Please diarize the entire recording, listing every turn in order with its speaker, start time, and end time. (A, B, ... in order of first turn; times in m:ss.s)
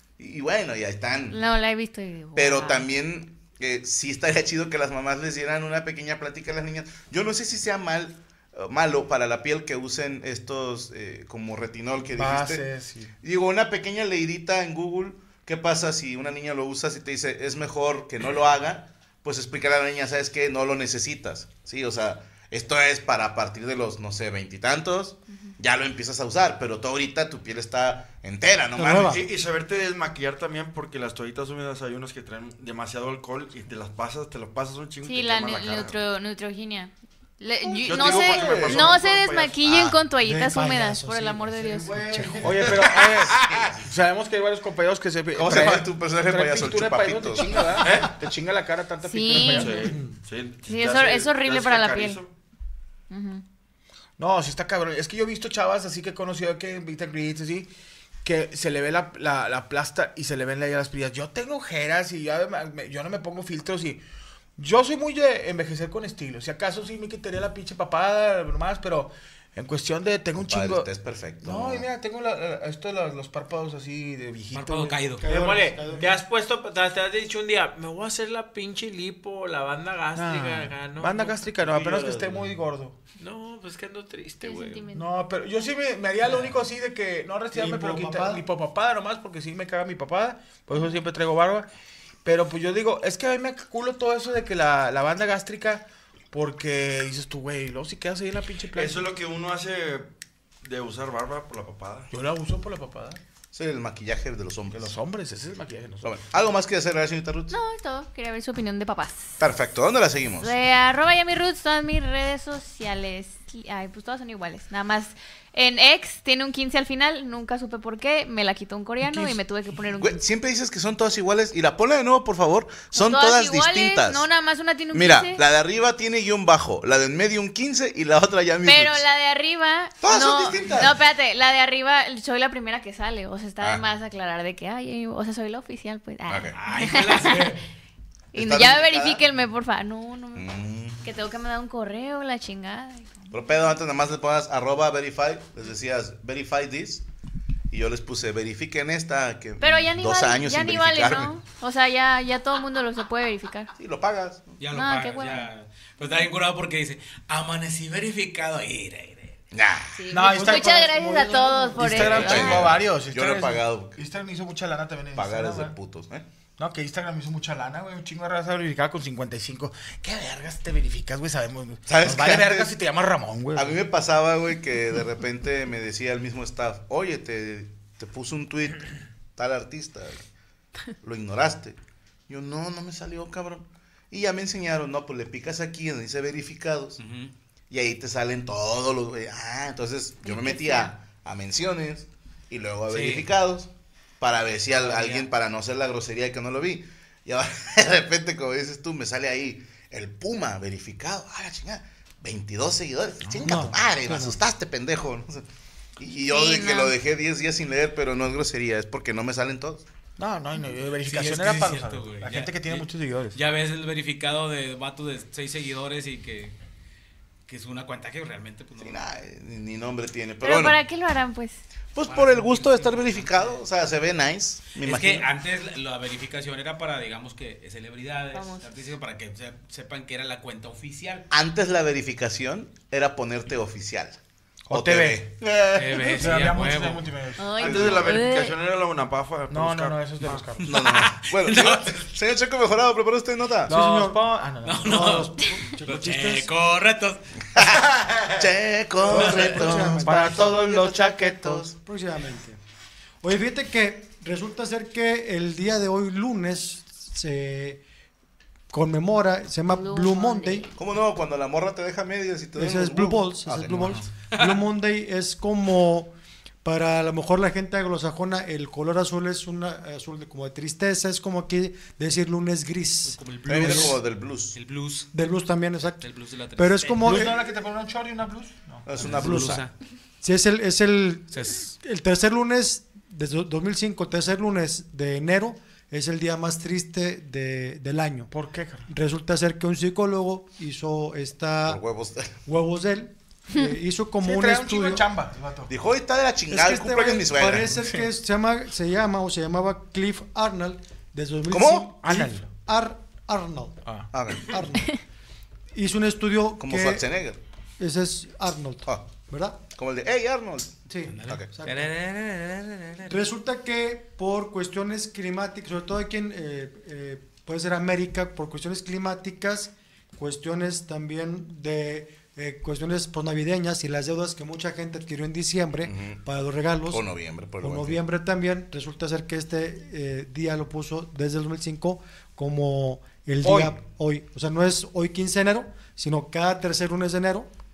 0:00.2-0:01.4 A
0:01.3-0:02.9 B
0:02.3-0:12.6 A
0:12.1-0:13.1 C
0:13.2-0:29.2 A
0:28.8-0:29.2 D
0:29.0-0:36.0 E
0:35.0-0:42.0 B
0:37.6-0:39.0 A
0:37.8-0:39.9 E
0:40.2-0:42.7 D
0:42.0-0:42.7 E
0:42.4-0:49.9 C
0:43.5-0:43.8 A
0:45.4-0:47.6 A
0:47.8-0:48.1 E
0:49.0-0:49.9 B
0:49.4-0:52.3 E
0:49.8-0:50.2 D
0:50.7-0:52.2 B
0:53.1-0:53.4 B
0:54.2-0:57.7 C
0:58.2-1:04.0 C
1:04.6-1:10.9 C
1:10.4-1:11.8 A
1:11.4-1:15.1 C
1:14.5-1:15.5 F
1:15.2-1:16.2 D
1:15.2-1:21.4 G
1:15.8-1:16.2 C
1:20.1-1:23.0 C
1:21.6-1:22.6 A
1:23.2-1:24.9 G
1:24.4-1:25.1 B
1:24.9-1:31.7 C
1:27.5-1:28.4 D
1:32.2-1:39.1 C
1:38.7-1:40.1 E
1:40.6-1:42.1 E
1:42.1-1:43.2 C
1:43.5-1:44.9 A
1:44.7-1:46.2 C
1:46.0-1:47.6 A
1:47.5-1:49.4 B
1:49.4-1:50.5 A
1:50.4-2:00.2 B
1:59.9-2:04.3 A
2:02.9-2:05.4 B
2:04.9-2:09.0 A
2:08.6-2:17.5 B
2:10.0-2:11.0 A
2:16.3-2:16.6 A
2:16.5-2:17.6 F
2:18.3-2:20.4 B
2:18.4-2:19.2 A
2:20.4-2:21.0 A
2:21.0-2:23.6 B
2:23.3-2:27.0 A
2:27.7-2:31.3 A
2:29.6-2:33.7 B
2:33.8-2:34.6 A
2:34.6-2:39.4 F
2:34.7-2:35.5 B
2:39.5-2:40.0 A
2:39.9-2:42.7 B
2:40.1-2:40.9 C
2:40.3-2:42.4 D
2:41.8-2:45.8 C
2:42.0-2:44.0 A
2:45.1-2:46.2 A
2:46.6-2:53.8 C
2:51.9-2:52.7 A
2:53.6-3:00.2 A
3:01.0-3:01.8 A
3:02.3-3:07.0 A
3:07.0-3:07.3 F
3:07.7-3:13.7 A
3:10.2-3:10.9 B
3:12.9-3:13.3 F
3:14.2-3:25.4 A
3:14.7-3:15.3 F
3:23.2-3:23.6 C
3:23.4-3:24.4 D
3:26.0-3:29.8 A
3:26.3-3:26.9 B
3:30.2-3:33.4 C
3:31.0-3:36.6 F
3:37.5-3:39.2 F
3:38.8-3:40.8 A
3:40.4-3:41.6 B
3:41.9-3:45.3 A
3:42.1-3:43.6 F
3:44.8-3:51.3 F
3:48.3-3:48.6 B
3:51.3-3:54.2 A
3:54.7-3:58.2 C
3:54.7-3:56.6 A
3:55.8-3:57.0 F
3:57.4-3:58.6 B
3:57.6-4:00.1 E
3:59.5-4:00.8 C
4:00.6-4:02.0 F
4:00.6-4:03.7 A
4:03.7-4:04.2 D
4:03.7-4:05.2 C
4:04.6-4:05.3 F
4:04.8-4:06.5 D
4:05.8-4:07.2 F
4:07.6-4:11.8 A
4:09.1-4:11.7 C
4:09.1-4:09.7 F
4:09.1-4:10.4 D
4:11.8-4:12.6 D
4:13.2-4:17.8 D
4:18.7-4:20.6 D
4:19.7-4:20.7 B
4:20.8-4:24.0 A
4:22.6-4:26.1 D
4:24.3-4:24.6 F
4:26.6-4:33.9 D
4:33.1-4:34.0 F
4:33.4-4:34.6 A
4:34.5-4:35.1 F
4:35.1-4:37.3 D
4:36.0-4:37.2 F
4:37.0-4:39.0 C
4:38.9-4:39.6 A
4:39.0-4:39.7 D
4:39.0-4:39.7 F
4:40.2-4:48.3 D
4:41.3-4:41.8 F
4:48.3-4:48.9 C
4:48.9-4:51.8 D
4:51.7-4:52.3 A
4:52.4-4:55.1 D
4:54.2-4:55.7 C
4:55.7-4:57.7 A
4:56.5-5:03.8 D
4:57.8-4:58.1 C
5:01.5-5:01.9 A
5:02.0-5:02.5 C
5:04.1-5:04.5 A
5:04.5-5:04.9 D
5:05.7-5:07.0 D
5:06.6-5:07.4 A
5:07.8-5:09.6 D
5:09.8-5:11.5 A
5:10.9-5:11.9 D
5:11.1-5:13.2 F
5:13.1-5:27.0 D
5:25.8-5:26.2 A
5:26.9-5:28.0 A
5:27.6-5:37.5 D